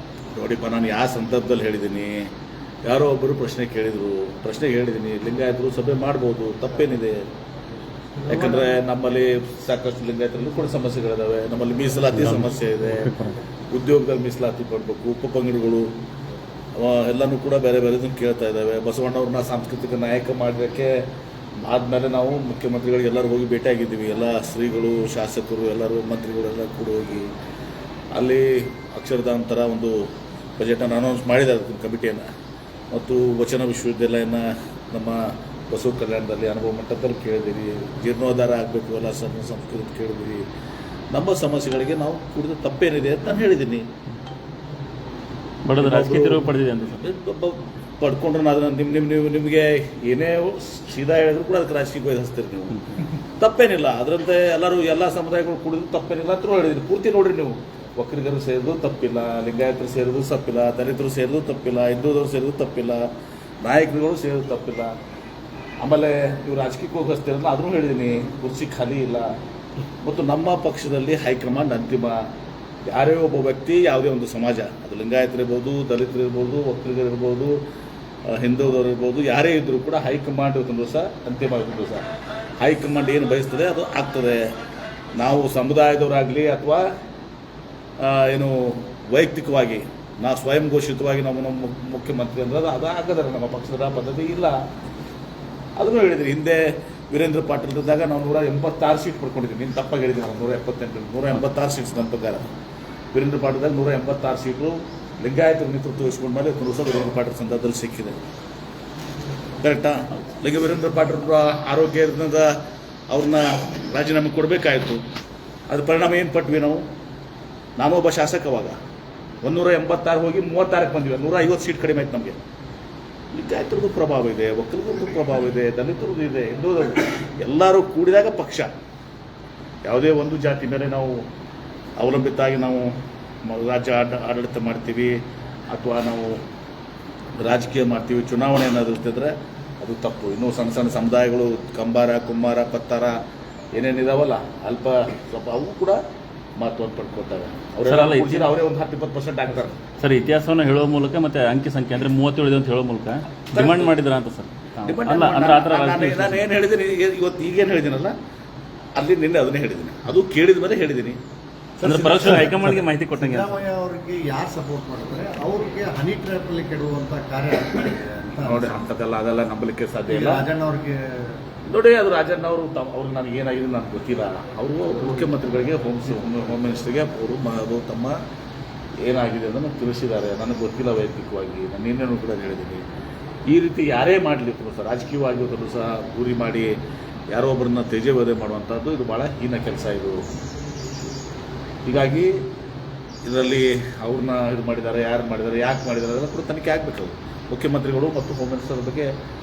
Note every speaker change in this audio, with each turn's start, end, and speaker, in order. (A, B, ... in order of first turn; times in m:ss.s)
0:00.3-0:02.3 A
0:02.8-0:07.2 A
0:08.3-0:15.9 A
0:08.3-0:08.7 B
0:16.8-0:20.9 A
0:21.6-0:27.3 A
0:28.1-0:30.0 A
0:30.6-0:32.2 A
0:32.9-0:40.4 A
0:41.1-0:43.9 A
0:45.6-0:47.1 C
0:45.8-1:03.0 A
1:03.6-1:04.9 A
1:05.8-1:09.3 A
1:10.0-1:12.2 A
1:12.9-1:17.6 A
1:18.3-1:22.1 A
1:22.6-1:24.5 A
1:25.2-1:26.8 A
1:28.0-1:34.6 A
1:35.8-1:42.5 A
1:43.1-1:48.2 A
1:49.6-1:52.6 A
1:53.1-1:55.0 A
1:55.7-1:56.8 A
1:57.8-1:58.8 A
1:59.4-2:02.4 A
2:03.3-2:08.7 A
2:09.8-2:11.3 A
2:12.0-2:12.9 A
2:13.4-2:15.2 A
2:15.7-2:16.4 A
2:17.4-2:23.2 A
2:23.7-2:26.0 A
2:26.6-2:29.8 A
2:27.8-2:28.5 C
2:30.0-2:36.4 C
2:33.5-2:34.0 A
2:34.8-2:38.1 A
2:39.0-2:41.2 A
2:41.8-2:48.8 B
2:41.8-2:43.6 C
2:48.2-2:50.5 A
2:50.1-2:51.4 B
2:51.6-2:58.2 A
2:59.0-3:02.8 A
3:03.5-3:06.7 A
3:07.3-3:10.2 A
3:11.8-3:12.3 A
3:13.2-3:19.1 A